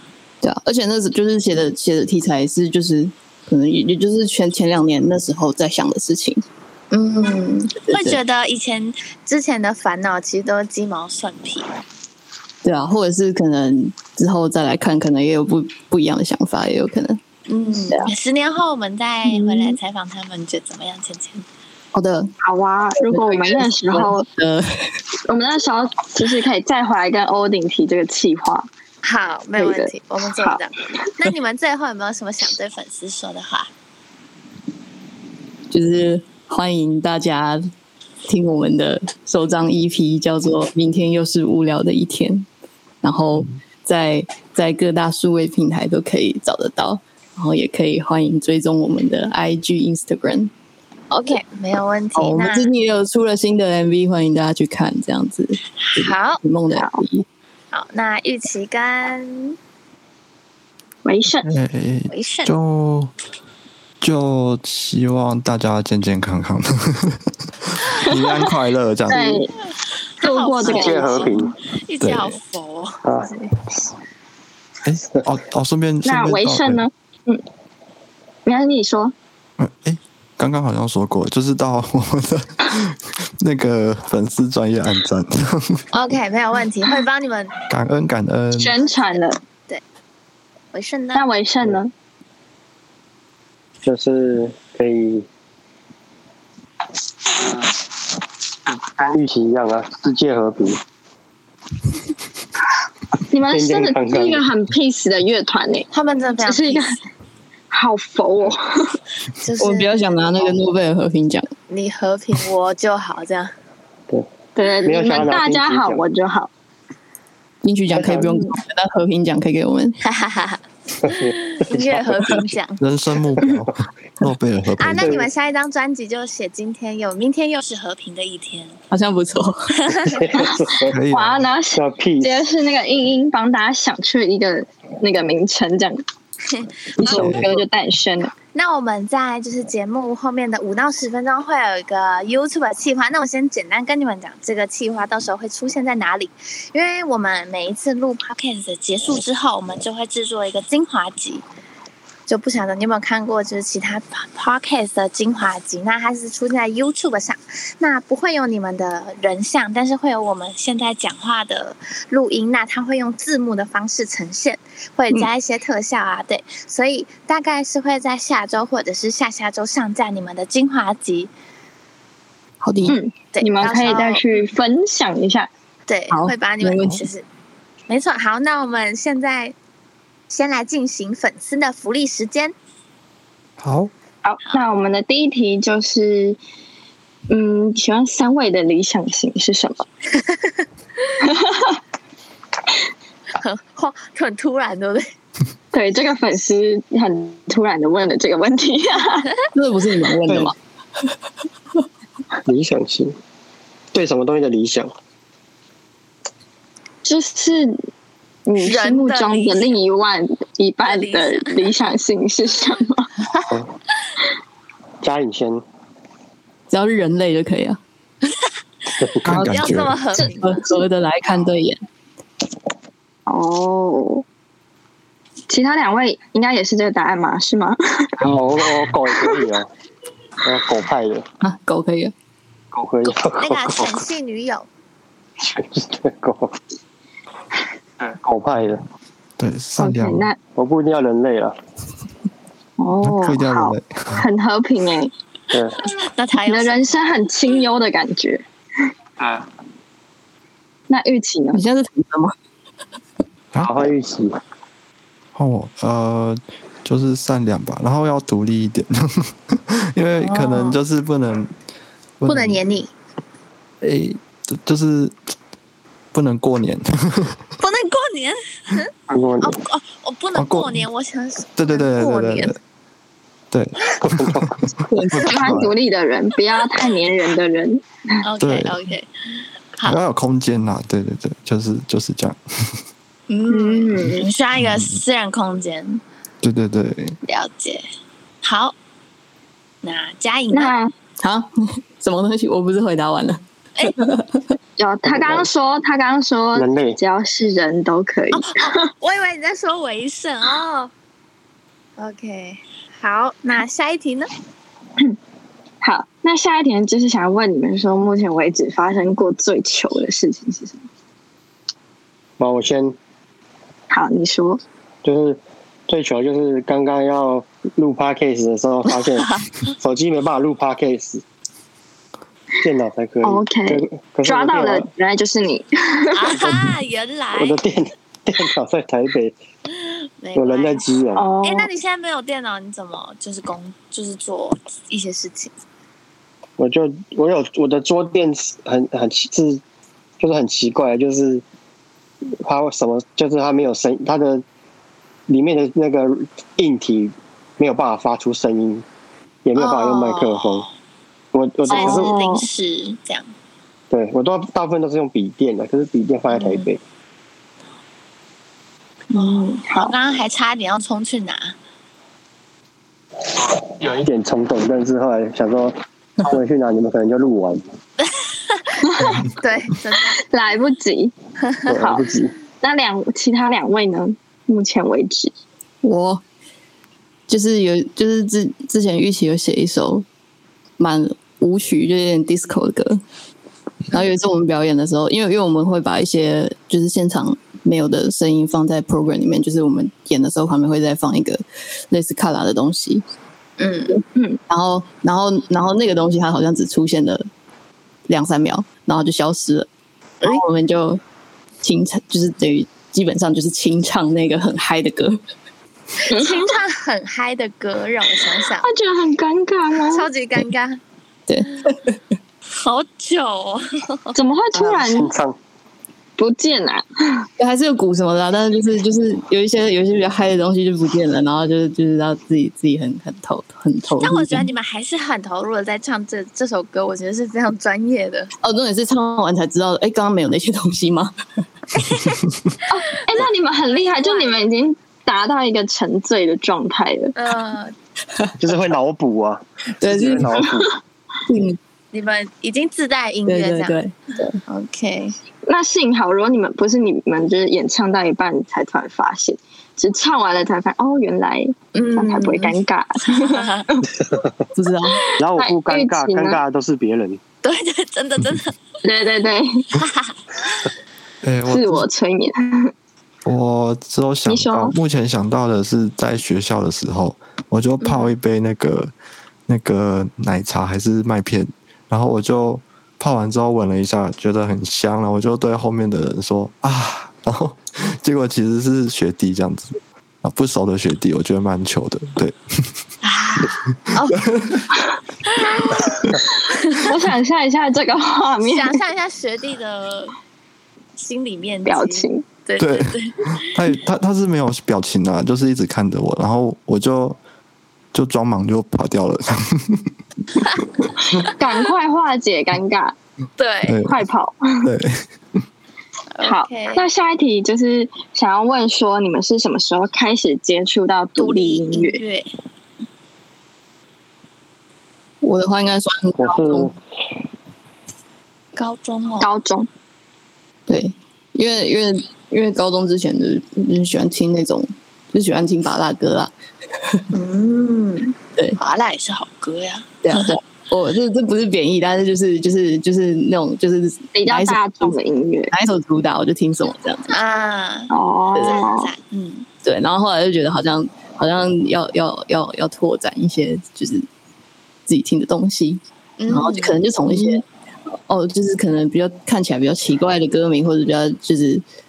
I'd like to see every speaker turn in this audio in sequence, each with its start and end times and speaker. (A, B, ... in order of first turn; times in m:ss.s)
0:00.4-0:06.4 A
0:06.9-0:11.7 B
0:07.8-0:08.2 A
0:12.6-0:17.2 A
0:17.5-0:21.4 B
0:19.3-0:19.7 A
0:21.9-0:22.3 A
0:22.4-0:24.3 C
0:23.0-0:24.9 A
0:25.3-0:28.7 C
0:29.0-0:33.7 B
0:29.6-0:31.1 C
0:35.7-0:37.7 A
0:38.3-0:42.5 A
0:43.0-0:50.5 A
0:51.1-0:52.7 B
0:52.2-0:57.3 A
0:55.8-0:56.4 B
0:56.7-0:57.0 C
0:57.7-0:59.6 B
1:01.0-1:01.5 C
1:01.4-1:03.1 D
1:02.1-1:02.5 B
1:04.0-1:09.4 D
1:09.1-1:09.5 C
1:10.2-1:13.0 B
1:10.2-1:11.4 C
1:10.6-1:11.5 E
1:12.0-1:12.4 D
1:13.0-1:13.3 E
1:14.8-1:16.8 D
1:16.0-1:17.4 C
1:18.5-1:19.1 C
1:19.6-1:25.8 D
1:25.9-1:27.6 B
1:27.7-1:28.8 D
1:28.6-1:29.4 C
1:28.8-1:29.8 B
1:30.7-1:31.3 B
1:31.1-1:31.9 C
1:33.8-1:35.3 E
1:38.7-1:40.8 E
1:43.3-1:45.9 C
1:43.5-1:44.5 E
1:45.9-1:47.0 B
1:46.4-1:47.0 C
1:47.7-1:49.0 C
1:49.4-1:50.5 B
1:49.6-1:51.5 A
1:51.7-1:53.5 B
1:54.6-1:56.5 C
1:54.8-1:56.0 E
1:57.6-2:00.0 A
1:58.2-1:58.5 C
2:00.0-2:02.8 B
2:01.0-2:02.5 E
2:02.8-2:05.1 D
2:04.8-2:08.8 B
2:05.0-2:05.3 E
2:08.9-2:09.8 A
2:09.9-2:10.2 B
2:10.1-2:11.0 E
2:10.9-2:11.5 D
2:11.1-2:16.0 C
2:11.7-2:12.5 E
2:16.5-2:17.2 B
2:17.0-2:18.3 C
2:17.1-2:17.5 D
2:18.5-2:31.4 B
2:32.3-2:51.3 B
2:52.6-2:53.0 A
2:52.9-2:55.5 C
2:53.3-2:54.2 B
2:55.9-2:57.2 B
2:56.1-2:57.0 A
2:57.9-2:59.6 B
3:00.3-3:02.5 B
3:03.6-3:03.9 D
3:04.2-3:06.4 C
3:07.3-3:09.9 C
3:10.2-3:10.6 B
3:11.2-3:11.8 C
3:13.4-3:15.1 B
3:15.7-3:19.3 C
3:19.5-3:20.6 A
3:22.5-3:23.2 E
3:23.9-3:24.9 E
3:27.0-3:27.8 C
3:28.5-3:33.1 C
3:28.6-3:29.8 B
3:30.8-3:31.7 B
3:35.0-3:35.6 E
3:36.7-3:37.8 A
3:39.2-3:40.0 D
3:39.3-3:40.6 B
3:39.3-3:39.6 A
3:40.2-3:41.8 A
3:43.3-3:44.2 C
3:45.5-3:48.2 C
3:48.2-3:49.7 E
3:50.4-3:51.3 E
3:51.4-3:52.1 A
3:52.7-3:54.0 E
3:53.3-3:54.7 B
3:55.4-3:56.6 E
3:58.0-3:58.8 E
3:59.4-4:00.3 D
3:59.8-4:00.4 C
4:00.6-4:01.6 E
4:02.8-4:05.1 C
4:03.0-4:04.3 D
4:05.5-4:05.8 E
4:06.0-4:07.0 B
4:06.5-4:08.4 C
4:09.2-4:09.5 E
4:10.9-4:11.6 C
4:11.5-4:12.3 A
4:13.5-4:13.9 D
4:13.6-4:14.4 E
4:15.4-4:21.5 D
4:20.2-4:20.8 B
4:22.2-4:22.6 D
4:22.2-4:22.9 B
4:23.8-4:25.2 D
4:26.1-4:27.4 D
4:27.6-4:32.6 B
4:29.1-4:29.6 E
4:30.4-4:30.8 D
4:31.6-4:32.6 D
4:33.5-4:35.7 D
4:34.0-4:34.6 E
4:34.9-4:35.3 A
4:35.2-4:38.2 C
4:38.2-4:40.0 B
4:38.4-4:38.8 D
4:39.8-4:42.8 D
4:43.3-4:46.0 B
4:43.5-4:44.3 C
4:44.6-4:45.0 D
4:46.4-4:47.2 D
4:47.2-4:47.9 B
4:48.4-4:48.8 B
4:49.8-4:50.7 B
4:50.5-4:50.9 C
4:51.2-4:54.4 A
4:54.8-4:58.9 C
4:55.1-4:55.5 E
4:56.6-4:57.0 E
4:58.3-5:00.9 B
5:02.0-5:04.3 B
5:05.8-5:10.8 C
5:12.4-5:13.0 E
5:13.9-5:14.6 C
5:15.0-5:21.2 E
5:19.2-5:19.5 B
5:22.6-5:24.9 E
5:23.2-5:26.3 C
5:26.1-5:27.6 B
5:27.4-5:29.4 E
5:30.2-5:30.9 B
5:30.4-5:31.2 E
5:31.2-5:31.7 C
5:31.4-5:35.5 B
5:36.6-5:39.6 E
5:40.2-5:41.4 E
5:42.4-5:44.4 E
5:45.3-5:48.8 E
5:49.4-5:50.6 E
5:49.6-5:50.7 B
5:51.3-5:52.1 E
5:51.7-5:53.3 B
5:51.7-5:52.5 C
5:53.9-5:56.8 E
5:56.3-5:56.7 B
5:59.1-5:59.9 C
5:59.2-6:01.6 B
6:03.3-6:07.6 E
6:08.1-6:10.2 B
6:08.8-6:09.3 C
6:10.0-6:11.1 C
6:11.7-6:12.4 E
6:11.8-6:12.0 C
6:12.6-6:15.3 C
6:15.8-6:16.2 A
6:17.3-6:20.1 A
6:20.8-6:23.0 A
6:23.9-6:33.0 A
6:33.6-6:34.0 B
6:34.2-6:34.4 C
6:34.5-6:37.3 A
6:38.1-6:39.7 A
6:40.2-6:41.0 A
6:41.6-6:45.2 A
6:46.1-6:48.7 B
6:46.1-6:46.4 C
6:48.6-6:50.1 C
6:49.9-6:50.8 B
6:51.3-6:52.0 A
6:52.6-6:54.2 B
6:54.1-6:55.1 C
6:54.5-6:55.4 E
6:56.2-6:57.3 C
6:57.4-7:04.5 A
7:04.0-7:08.3 B
7:08.4-7:11.1 A
7:11.8-7:12.2 B
7:12.7-7:17.2 C
7:12.9-7:13.2 B
7:14.0-7:14.4 B
7:17.2-7:17.7 B
7:18.4-7:20.7 E
7:19.8-7:20.5 A
7:21.3-7:21.6 A
7:21.9-7:23.8 B
7:23.3-7:24.4 A
7:24.5-7:25.2 B
7:25.5-7:33.9 C
7:31.8-7:33.7 B
7:34.0-7:34.3 E
7:34.5-7:35.0 A
7:35.1-7:36.4 C
7:35.2-7:37.2 E
7:37.4-7:38.6 B
7:38.8-7:39.7 C
7:39.8-7:40.7 B
7:41.2-7:41.9 D
7:41.5-7:42.7 C
7:43.2-7:48.9 D
7:44.3-7:44.7 C
7:47.8-7:48.1 B
7:49.5-8:02.7 D
8:03.0-8:04.3 B
8:04.1-8:04.6 D
8:05.3-8:06.9 B
8:06.8-8:08.8 C
8:08.4-8:10.2 B
8:11.0-8:13.6 B
8:11.6-8:12.3 C
8:12.6-8:17.2 D
8:17.9-8:19.9 D
8:21.2-8:23.0 C
8:23.4-8:23.8 B
8:23.7-8:24.0 D
8:23.9-8:24.7 C
8:24.6-8:25.1 D
8:26.2-8:26.8 B
8:26.2-8:32.0 C
8:31.2-8:32.3 B
8:35.2-8:36.7 A
8:36.2-8:36.8 E
8:38.6-8:39.3 B
8:39.2-8:39.7 C
8:40.7-8:46.3 A
8:47.1-8:50.3 B
8:50.0-8:55.0 A
8:54.1-8:55.5 C
8:55.5-8:57.2 A
8:57.1-8:59.5 B
8:57.9-8:58.9 C
8:58.3-8:58.6 A
8:59.6-9:04.1 A
9:04.9-9:07.4 A
9:06.2-9:06.8 B
9:08.1-9:11.6 A